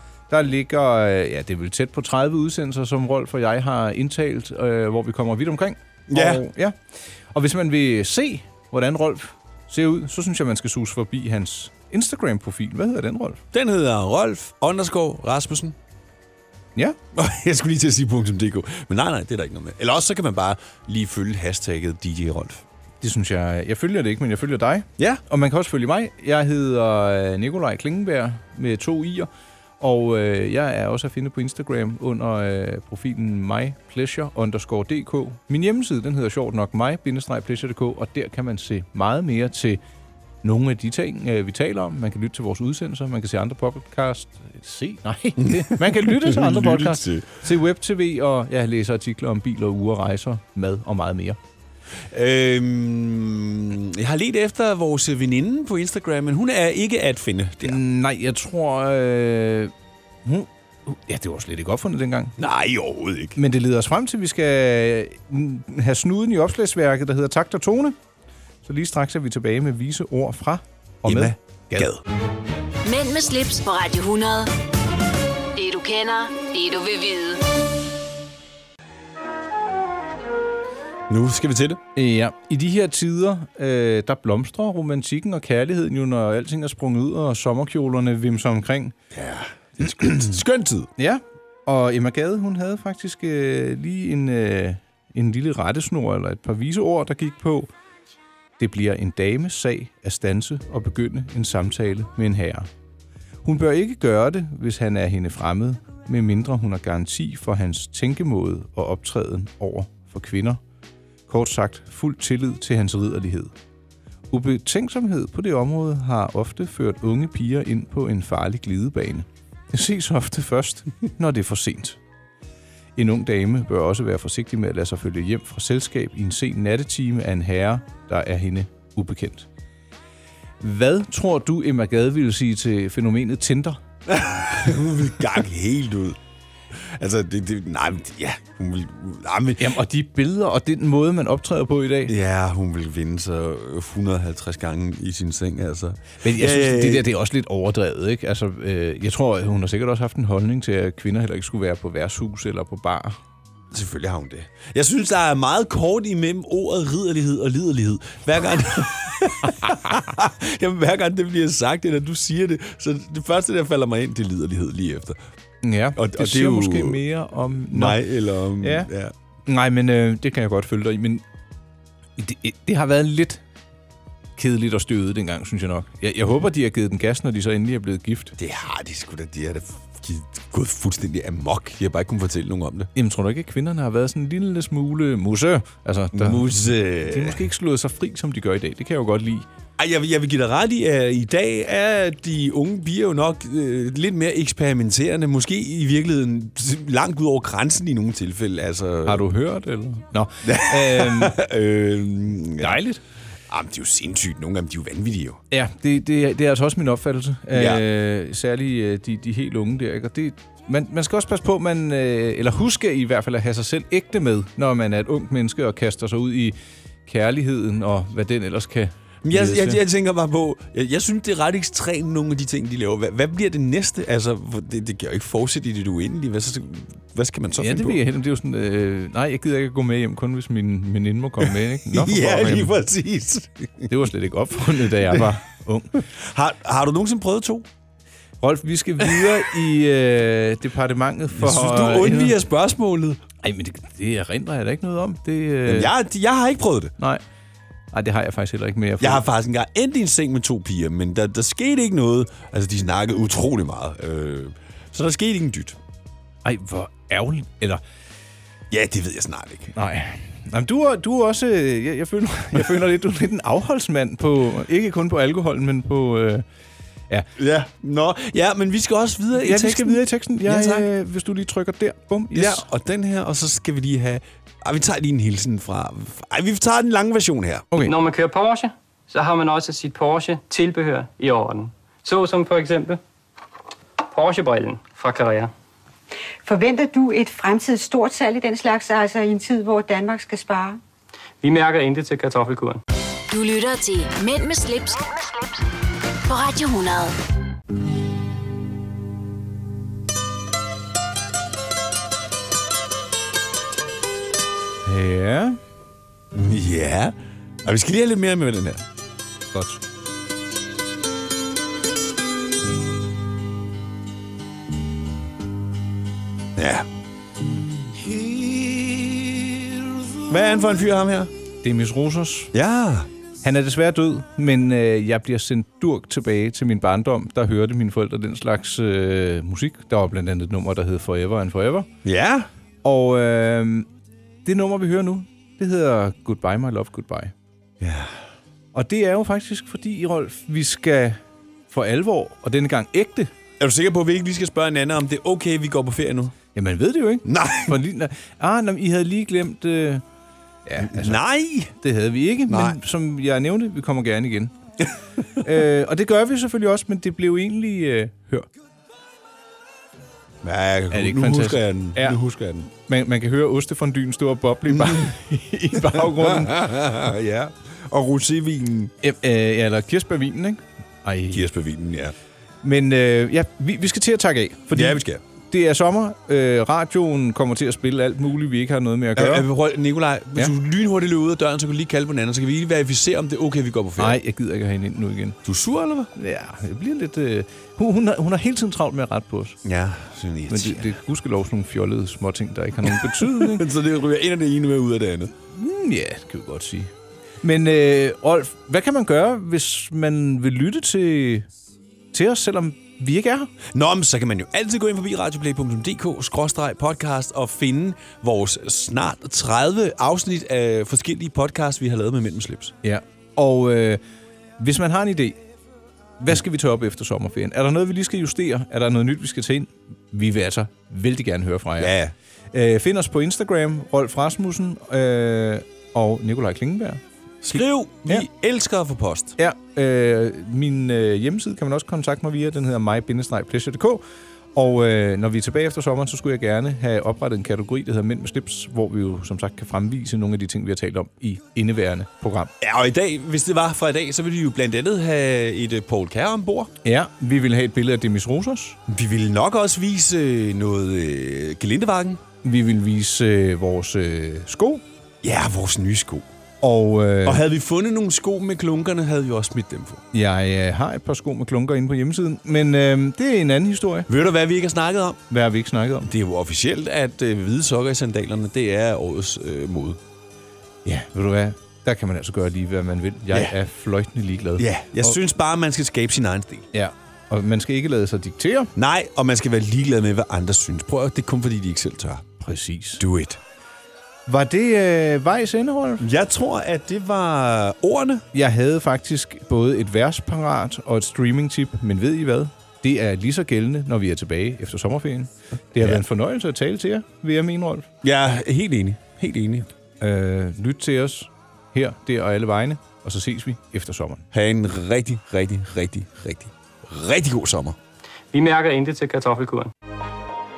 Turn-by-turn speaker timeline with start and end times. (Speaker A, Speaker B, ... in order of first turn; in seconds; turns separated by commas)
Speaker A: 0.3-6.8, Speaker B: 6.1-6.4, Speaker A: 7.3-13.4, Speaker B: 13.5-15.8, Speaker B: 17.1-22.6, Speaker A: 23.0-29.3, Speaker A: 29.8-39.8, Speaker A: 40.4-51.4, Speaker B: 45.4-47.4, Speaker B: 52.1-57.8, Speaker A: 57.6-59.7, Speaker A: 60.2-62.3, Speaker B: 62.4-63.4, Speaker A: 63.4-68.0, Speaker A: 68.6-71.9, Speaker B: 71.0-72.0, Speaker C: 72.8-74.5, Speaker C: 75.5-77.5, Speaker B: 81.1-81.8, Speaker A: 82.0-88.9, Speaker B: 89.1-90.9, Speaker A: 91.0-97.7, Speaker A: 98.6-102.7, Speaker A: 103.4-110.6, Speaker A: 111.3-113.5, Speaker A: 114.3-122.0, Speaker A: 123.0-129.5, Speaker A: 130.6-133.8, Speaker B: 134.1-136.2, Speaker B: 136.7-139.8, Speaker A: 139.6-142.1, Speaker B: 142.1-147.1, Speaker A: 146.2-153.2, Speaker B: 153.7-165.2, Speaker A: 165.6-168.0, Speaker B: 165.9-167.0, Speaker B: 167.7-169.1, Speaker A: 168.6-168.9, Speaker A: 169.5-171.2, Speaker A: 172.2-173.4, Speaker A: 174.4-178.3, Speaker B: 178.4-182.9, Speaker A: 182.9-189.5, Speaker B: 186.1-187.4, Speaker B: 189.8-199.2, Speaker A: 199.1-201.3, Speaker B: 200.4-202.8, Speaker A: 202.6-203.0, Speaker B: 203.5-205.4, Speaker A: 205.5-219.8, Speaker B: 207.5-207.8, Speaker B: 219.2-228.0, Speaker A: 227.5-232.7, Speaker B: 231.4-233.9, Speaker A: 233.9-236.0, Speaker B: 235.0-235.3, Speaker B: 236.1-237.7, Speaker A: 238.4-242.4, Speaker B: 239.1-239.4, Speaker B: 241.3-243.2, Speaker A: 243.4-245.9, Speaker B: 245.7-246.9, Speaker A: 247.9-249.2, Speaker B: 249.0-255.8, Speaker A: 256.4-257.8, Speaker B: 258.7-259.7, Speaker A: 259.7-266.4, Speaker B: 267.4-270.9, Speaker A: 269.4-272.6, Speaker B: 272.3-277.6, Speaker D: 277.8-283.0, Speaker D: 284.1-285.5, Speaker E: 286.4-290.8, Speaker D: 291.4-292.8, Speaker C: 293.3-295.2, Speaker C: 296.2-297.1, Speaker A: 304.8-305.6, Speaker B: 306.3-308.8, Speaker A: 309.5-309.8, Speaker B: 316.6-316.9, Speaker B: 320.2-321.3, Speaker A: 321.6-322.5, Speaker B: 322.5-323.1, Speaker A: 323.4-331.9, Speaker B: 332.0-332.5, Speaker A: 332.8-333.9, Speaker A: 334.4-337.3, Speaker B: 337.8-338.2, Speaker A: 338.7-341.2, Speaker A: 341.7-343.3, Speaker B: 343.6-346.3, Speaker A: 346.5-350.0, Speaker B: 347.2-347.7, Speaker A: 350.6-351.2, Speaker B: 350.8-351.7, Speaker A: 351.7-354.5, Speaker B: 352.5-352.8, Speaker A: 355.4-358.4, Speaker B: 360.4-362.7, Speaker A: 360.9-362.2, Speaker A: 362.8-366.5, Speaker B: 364.7-365.1, Speaker B: 365.7-368.9, Speaker A: 369.0-371.5, Speaker B: 371.3-372.1, Speaker A: 372.6-379.5, Speaker B: 374.7-375.2, Speaker B: 379.1-384.2, Speaker A: 384.0-385.4, Speaker B: 385.4-386.1, Speaker A: 386.1-389.6, Speaker B: 389.6-390.9, Speaker A: 390.5-393.6, Speaker B: 392.8-395.3, Speaker A: 395.5-396.9, Speaker A: 397.4-401.5, Speaker A: 402.1-403.5, Speaker B: 403.7-412.7, Speaker A: 412.8-414.0, Speaker A: 414.6-415.4, Speaker A: 416.2-421.9, Speaker B: 421.8-422.1, Speaker A: 422.5-428.3, Speaker B: 427.4-429.3, Speaker A: 429.4-434.0, Speaker A: 434.5-442.5, Speaker B: 442.6-446.7, Speaker A: 446.8-448.8, Speaker B: 448.9-452.2, Speaker A: 452.4-454.8, Speaker B: 455.2-456.3, Speaker A: 456.6-457.4, Speaker B: 457.2-460.0, Speaker A: 460.1-464.1, Speaker B: 464.1-465.2, Speaker A: 465.3-466.1, Speaker B: 466.0-470.0, Speaker A: 470.8-475.2, Speaker B: 473.3-473.6, Speaker B: 474.6-476.7, Speaker A: 476.7-478.7, Speaker B: 478.8-482.2, Speaker A: 482.4-483.0, Speaker B: 483.0-483.4, Speaker A: 484.3-486.0, Speaker B: 486.0-488.2, Speaker A: 488.3-497.9, Speaker B: 495.8-496.0, Speaker B: 498.0-499.7, Speaker A: 500.0-504.2, Speaker B: 504.3-507.8, Speaker D: 508.3-509.7